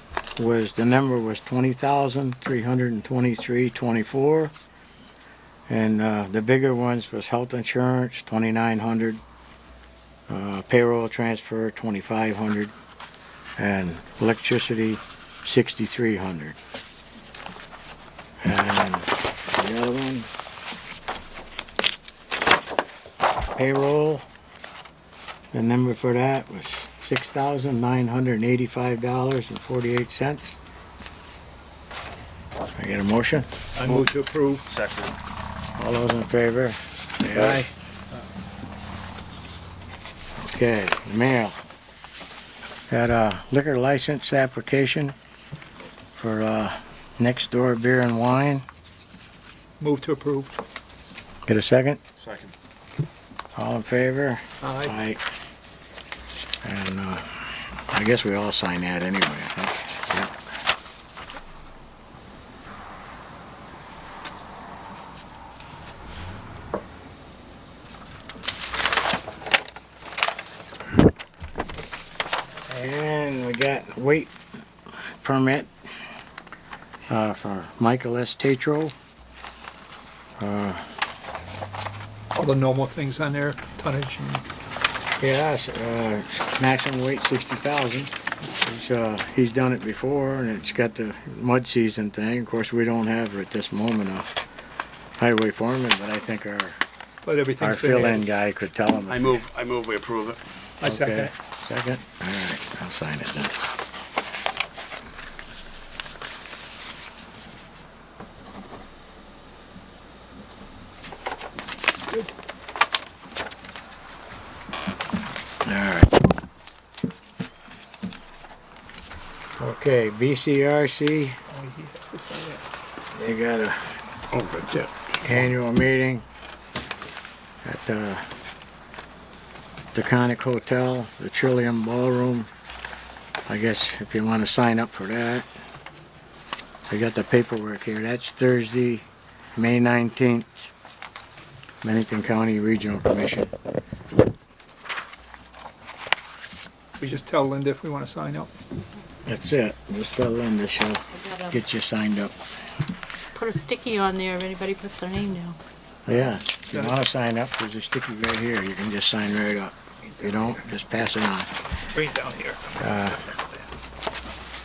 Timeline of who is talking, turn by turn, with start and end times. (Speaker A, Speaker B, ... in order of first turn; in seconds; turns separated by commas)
Speaker A: 0.3-4.5, Speaker A: 5.7-9.2, Speaker A: 10.3-12.7, Speaker A: 13.6-16.6, Speaker A: 18.4-20.3, Speaker A: 23.6-24.2, Speaker A: 25.5-30.6, Speaker A: 32.8-33.5, Speaker B: 33.8-34.6, Speaker C: 34.6-35.1, Speaker A: 35.8-37.7, Speaker B: 37.3-37.6, Speaker A: 40.4-41.6, Speaker A: 42.9-45.1, Speaker A: 46.1-48.6, Speaker B: 49.8-50.5, Speaker A: 51.5-52.0, Speaker C: 52.2-52.5, Speaker A: 53.5-55.2, Speaker B: 54.6-54.9, Speaker A: 56.6-57.3, Speaker A: 57.9-60.4, Speaker A: 72.7-74.3, Speaker A: 75.1-75.7, Speaker A: 77.1-78.9, Speaker A: 80.4-80.9, Speaker B: 82.3-84.4, Speaker A: 85.2-94.3, Speaker A: 95.2-96.8, Speaker B: 97.2-98.3, Speaker A: 97.6-99.4, Speaker C: 99.1-100.4, Speaker B: 100.8-101.3, Speaker A: 100.8-103.6, Speaker A: 115.6-116.3, Speaker A: 119.6-121.4, Speaker B: 121.5-122.6, Speaker A: 123.1-123.9, Speaker B: 124.3-124.9, Speaker A: 125.2-126.2, Speaker A: 127.6-128.3, Speaker A: 129.9-132.5, Speaker A: 133.5-135.4, Speaker A: 136.9-139.0, Speaker A: 139.6-140.7, Speaker A: 141.8-143.5, Speaker B: 147.0-148.5, Speaker A: 149.2-152.3, Speaker D: 151.1-151.6, Speaker D: 153.1-155.6, Speaker A: 156.1-161.5, Speaker B: 156.5-157.0, Speaker B: 160.2-160.6, Speaker B: 161.9-163.6, Speaker A: 162.8-163.2